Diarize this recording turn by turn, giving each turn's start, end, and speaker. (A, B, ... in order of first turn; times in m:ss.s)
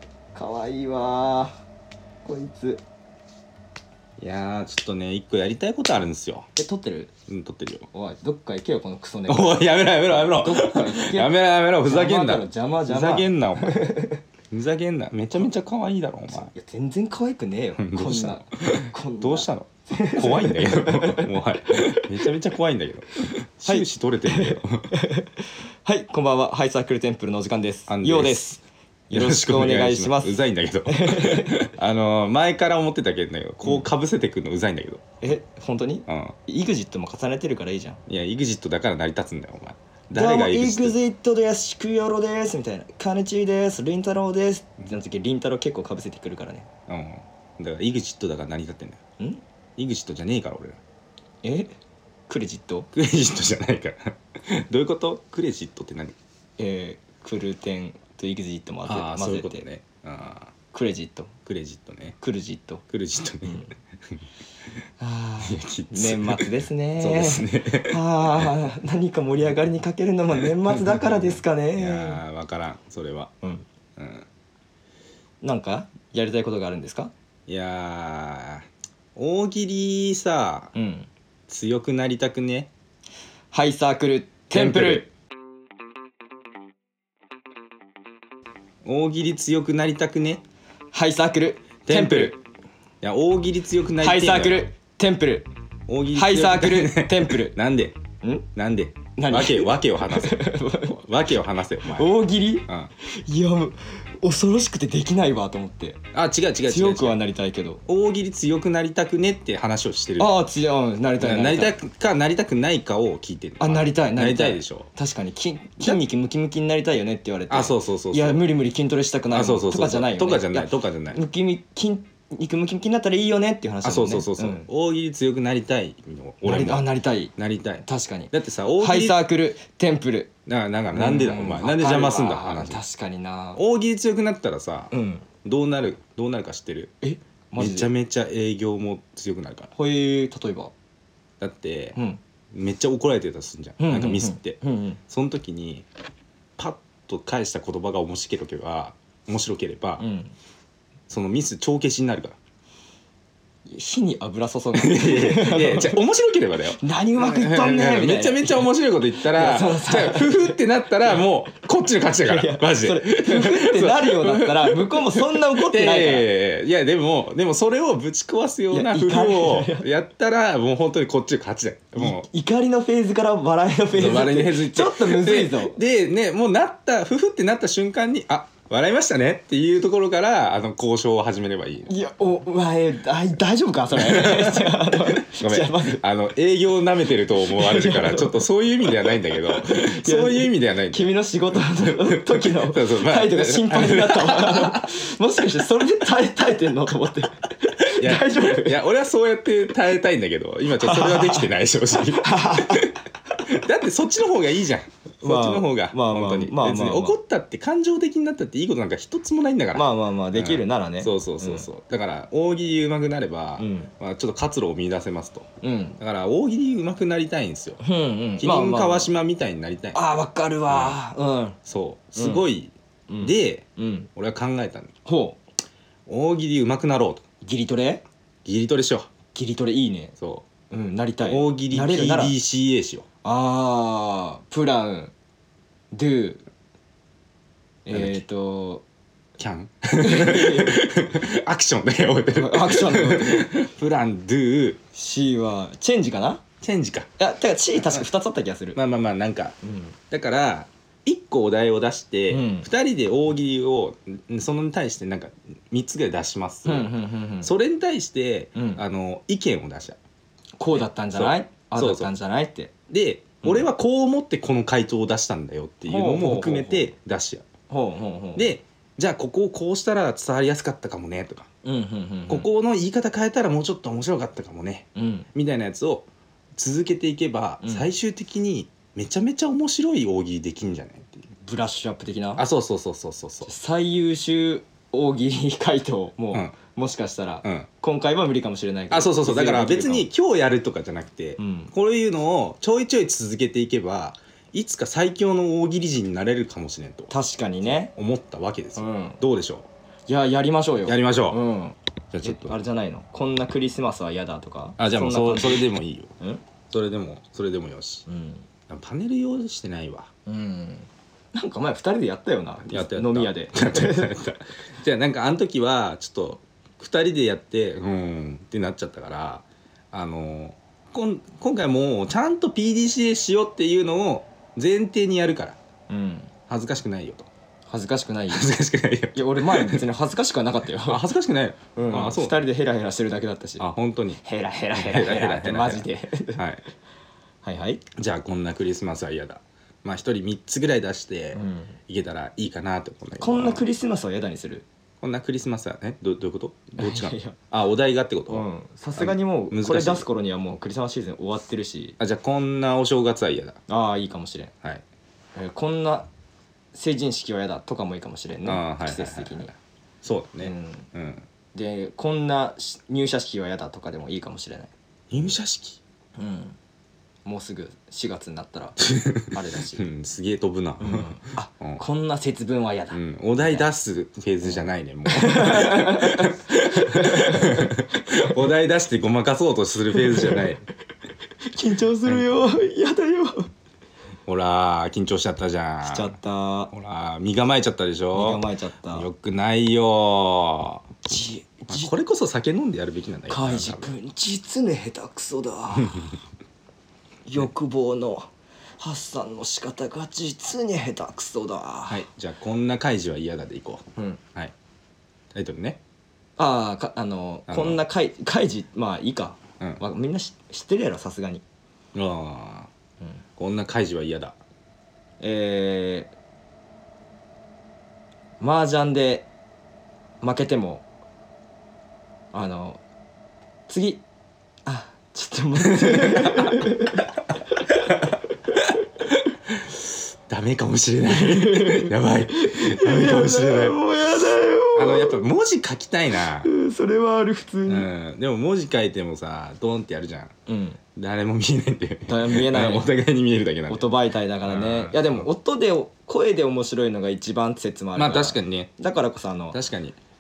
0:00.3-0:01.6 A
0:02.2-0:02.8 A
0:04.2-0:06.5 B
0:06.6-0:07.1 A
0:07.3-0:07.9 B
0:07.9-0:14.2 A
0:09.3-0:13.9 B
0:14.5-0:16.5 B
0:16.3-0:22.0 A
0:17.8-0:24.9 B
0:23.7-0:31.7 A
0:27.9-0:28.4 B
0:29.1-0:35.0 B
0:33.6-0:33.9 A
0:35.2-0:38.0 A
0:36.1-0:36.4 B
0:38.1-0:41.0 B
0:40.1-0:46.7 A
0:46.9-0:49.0 B
0:49.8-0:50.8 B
0:51.4-0:51.7 A
0:52.3-0:52.9 A
0:52.9-0:56.2 B
0:56.6-0:59.7 A
0:58.8-1:00.5 B
1:00.7-1:01.3 A
1:01.5-1:02.2 B
1:02.2-1:02.8 A
1:02.9-1:03.7 B
1:03.4-1:03.7 A
1:05.0-1:12.2 A
1:05.4-1:08.6 B
1:10.4-1:13.3 B
1:14.0-1:14.3 B
1:15.4-1:17.1 A
1:17.5-1:20.7 B
1:20.8-1:21.1 A
1:21.5-1:22.7 B
1:23.5-1:25.1 A
1:24.5-1:25.0 B
1:28.8-1:30.4 B
1:30.9-1:32.4 A
1:31.8-1:32.4 B
1:33.0-1:34.7 B
1:34.0-1:35.5 A
1:35.9-1:38.0 B
1:36.1-1:37.6 A
1:38.6-1:42.9 B
1:39.2-1:41.0 A
1:41.9-1:46.0 A
1:46.1-1:47.2 B
1:46.7-1:47.8 A
1:47.9-1:50.3 B
1:50.2-1:51.8 A
1:51.2-1:54.9 B
1:53.6-2:04.7 A
1:57.5-1:58.4 B
1:59.3-2:01.2 B
2:03.8-2:09.2 B
2:06.4-2:07.3 A
2:07.8-2:10.3 A
2:10.5-2:12.8 B
2:10.9-2:13.6 A
2:13.6-2:14.9 B
2:14.9-2:15.3 A
2:15.4-2:17.0 B
2:17.0-2:17.9 A
2:17.6-2:19.7 B
2:19.7-2:20.7 A
2:21.4-2:22.0 B
2:22.5-2:25.9 B
2:23.8-2:25.0 A
2:26.6-2:30.0 B
2:30.0-2:30.3 A
2:31.1-2:32.4 B
2:33.7-2:36.0 A
2:34.8-2:52.3 B
2:36.8-2:38.7 A
2:39.2-2:40.6 A
2:42.1-2:46.3 A
2:48.7-2:49.9 A
2:52.0-2:55.8 A
2:53.9-3:01.9 B
3:01.9-3:06.0 A
3:03.9-3:14.9 B
3:07.4-3:18.8 A
3:17.9-3:35.5 B
3:20.8-3:23.0 A
3:25.2-3:27.2 A
3:29.7-3:31.7 A
3:33.6-3:33.9 A
3:35.6-3:36.0 A
3:36.0-3:37.8 B
3:37.8-3:39.1 A
3:38.4-3:40.0 B
3:39.9-3:41.6 A
3:40.7-3:41.0 B
3:41.6-3:44.9 B
3:42.2-3:42.4 A
3:43.1-3:44.1 A
3:45.0-3:45.4 A
3:46.1-3:47.2 B
3:47.4-3:48.0 A
3:48.4-3:49.1 B
3:49.3-3:50.2 A
3:50.2-3:50.5 B
3:50.7-3:52.4 A
3:51.2-3:53.1 B
3:53.2-3:55.1 A
3:55.9-3:56.4 A
3:57.9-3:58.8 A
3:57.9-3:58.2 B
3:59.4-4:04.8 B
4:00.0-4:00.8 A
4:02.3-4:03.6 A
4:04.9-4:06.4 A
4:06.6-4:07.1 B
4:07.2-4:08.8 A
4:07.8-4:08.1 B
4:08.8-4:09.6 B
4:09.6-4:10.0 A
4:10.1-4:20.0 B
4:12.3-4:12.7 A
4:16.6-4:17.5 A
4:18.6-4:18.8 A
4:20.6-4:22.7 A
4:20.7-4:22.1 B
4:22.9-4:27.5 B
4:23.4-4:23.7 A
4:25.9-4:26.9 A
4:27.7-4:28.5 A
4:28.4-4:31.5 B
4:31.6-4:32.5 A
4:32.3-4:41.3 B
4:35.0-4:35.3 A
4:37.6-4:37.9 A
4:41.4-4:42.5 A
4:42.4-4:43.5 B
4:43.5-4:50.1 A
4:48.9-4:57.1 B
4:51.4-4:51.7 A
4:57.1-4:57.9 A
4:57.6-4:59.7 B
4:58.8-4:59.2 A
5:00.1-5:05.7 A
5:00.9-5:01.4 B
5:02.1-5:02.6 B
5:04.8-5:06.1 B
5:06.7-5:08.0 B
5:08.1-5:08.5 A
5:08.7-5:10.1 B
5:10.3-5:14.2 A
5:12.6-5:25.6 B
5:25.9-5:26.3 A
5:26.5-5:27.3 B
5:27.7-5:28.5 A
5:28.3-5:29.9 B
5:29.1-5:31.1 A
5:30.8-5:32.4 B
5:31.8-5:33.7 A
5:33.6-5:34.2 B
5:34.2-5:36.4 A
5:34.7-5:36.6 B
5:37.4-5:37.8 A
5:38.0-5:43.6 B
5:41.3-5:41.8 A
5:43.2-5:44.7 A
5:45.0-5:50.0 B
5:46.8-5:47.4 A
5:48.3-5:52.0 A
5:52.0-5:53.6 B
5:53.7-5:54.5 A
5:55.4-5:56.1 A
5:56.7-5:59.5 A
5:58.4-6:01.3 B
6:00.4-6:00.9 A
6:01.5-6:04.7 A
6:05.1-6:05.8 B
6:06.2-6:06.6 A
6:07.2-6:09.8 A
6:08.9-6:11.8 B
6:10.8-6:13.7 A
6:12.9-6:20.6 B
6:14.4-6:17.8 A
6:20.0-6:20.5 A
6:21.5-6:23.5 A
6:24.3-6:26.2 B
6:25.8-6:26.7 A
6:26.7-6:31.0 B
6:28.1-6:29.1 A
6:31.0-6:31.9 A
6:31.7-6:33.9 B
6:33.3-6:36.2 A
6:35.8-6:36.1 B
6:37.3-6:42.0 A
6:41.9-6:44.5 B
6:45.3-6:45.8 B
6:46.4-6:51.4 A
6:47.5-6:47.8 B
6:51.9-6:52.7 B
6:53.4-6:54.4 B
6:55.2-6:56.1 A
6:58.4-6:59.3 A
7:00.2-7:00.8 A
7:02.3-7:02.8 A
7:03.7-7:04.0 A
7:04.7-7:08.1 A
7:05.8-7:06.6 B
7:09.5-7:13.8 B
7:11.0-7:15.2 A
7:14.8-7:16.5 B
7:16.4-7:17.9 A
7:17.7-7:20.3 B
7:20.5-7:20.8 A
7:21.0-7:23.9 B
7:22.1-7:22.9 A
7:23.7-7:29.6 A
7:24.4-7:25.3 B
7:28.0-7:28.7 B
7:29.5-7:30.0 B